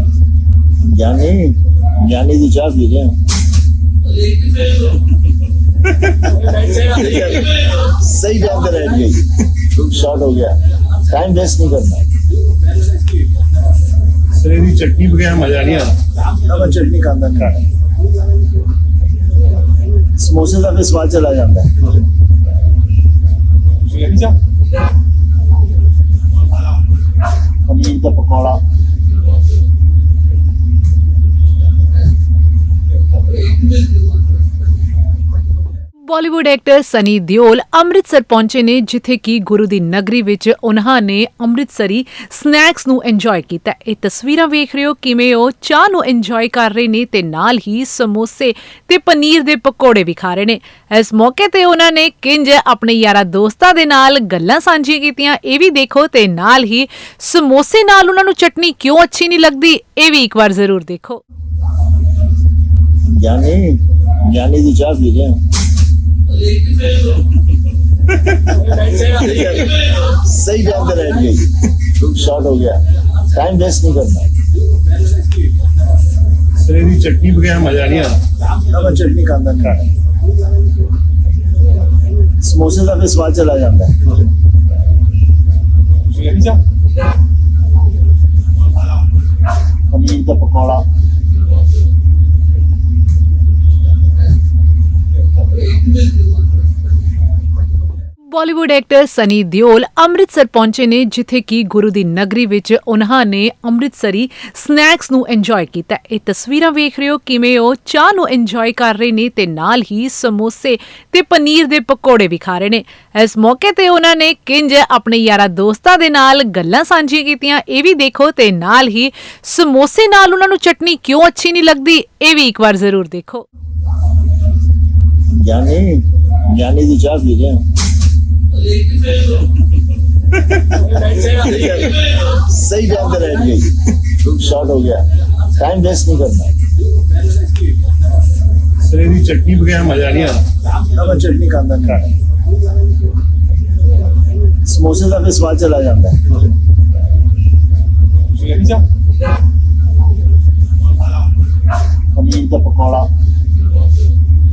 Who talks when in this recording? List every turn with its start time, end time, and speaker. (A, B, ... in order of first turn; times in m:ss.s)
0:00.8-0:03.2 A
0:06.3-0:12.0 A
0:14.3-0:16.0 B
0:16.4-0:17.7 A
0:20.2-0:21.9 A
0:23.9-0:24.4 B
0:27.7-0:28.6 A
0:36.0-1:01.2 C
1:03.1-1:05.4 A
1:08.6-1:14.3 A
1:16.6-1:18.2 B
1:18.6-1:19.9 A
1:22.4-1:24.0 A
1:26.1-1:26.6 B
1:29.9-1:30.8 A
1:38.3-2:03.5 C
2:05.3-2:07.6 A
2:10.7-2:16.5 A
2:18.8-2:20.5 B
2:20.8-2:22.1 A
2:24.6-2:26.4 A
2:28.3-2:28.8 B
2:32.1-2:33.1 A